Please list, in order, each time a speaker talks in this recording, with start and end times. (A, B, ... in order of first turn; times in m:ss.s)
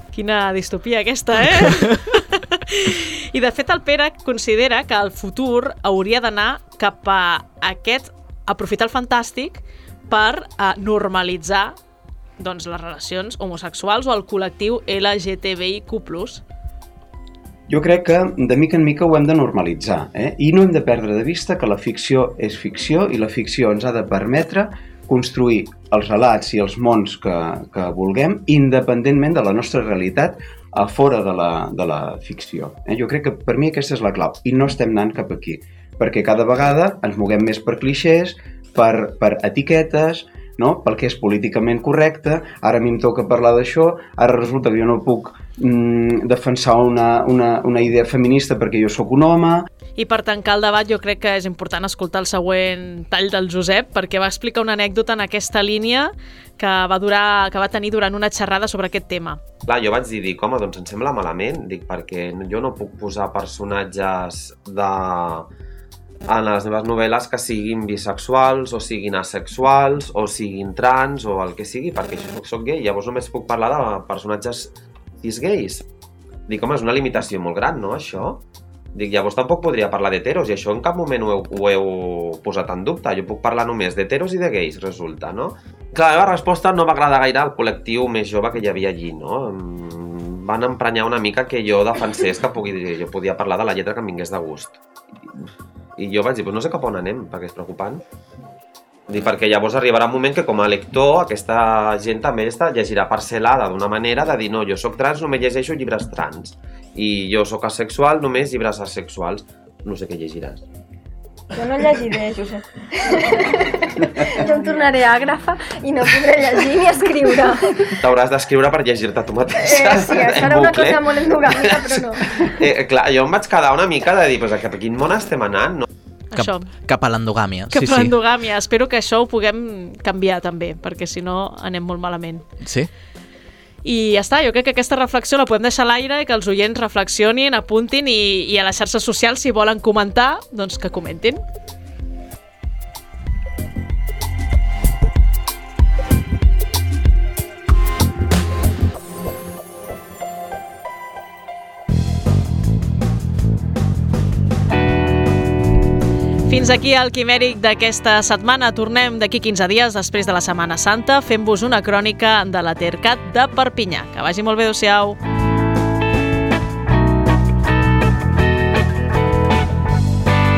0:00.1-0:11.7 A
0:12.4-0:16.4 A
0:17.7-0:49.6 B
0:50.0-0:59.4 A
0:59.6-1:05.5 C
1:06.2-1:15.9 C
1:16.5-1:34.8 C
1:36.0-1:38.0 C
1:39.1-1:50.6 C
1:51.5-1:58.0 D
1:58.0-2:05.9 C
1:59.5-2:02.6 D
2:06.3-2:06.7 A
2:06.4-2:08.1 E
2:07.7-2:12.4 A
2:12.6-2:12.9 E
2:13.8-2:21.4 A
2:36.4-2:45.2 A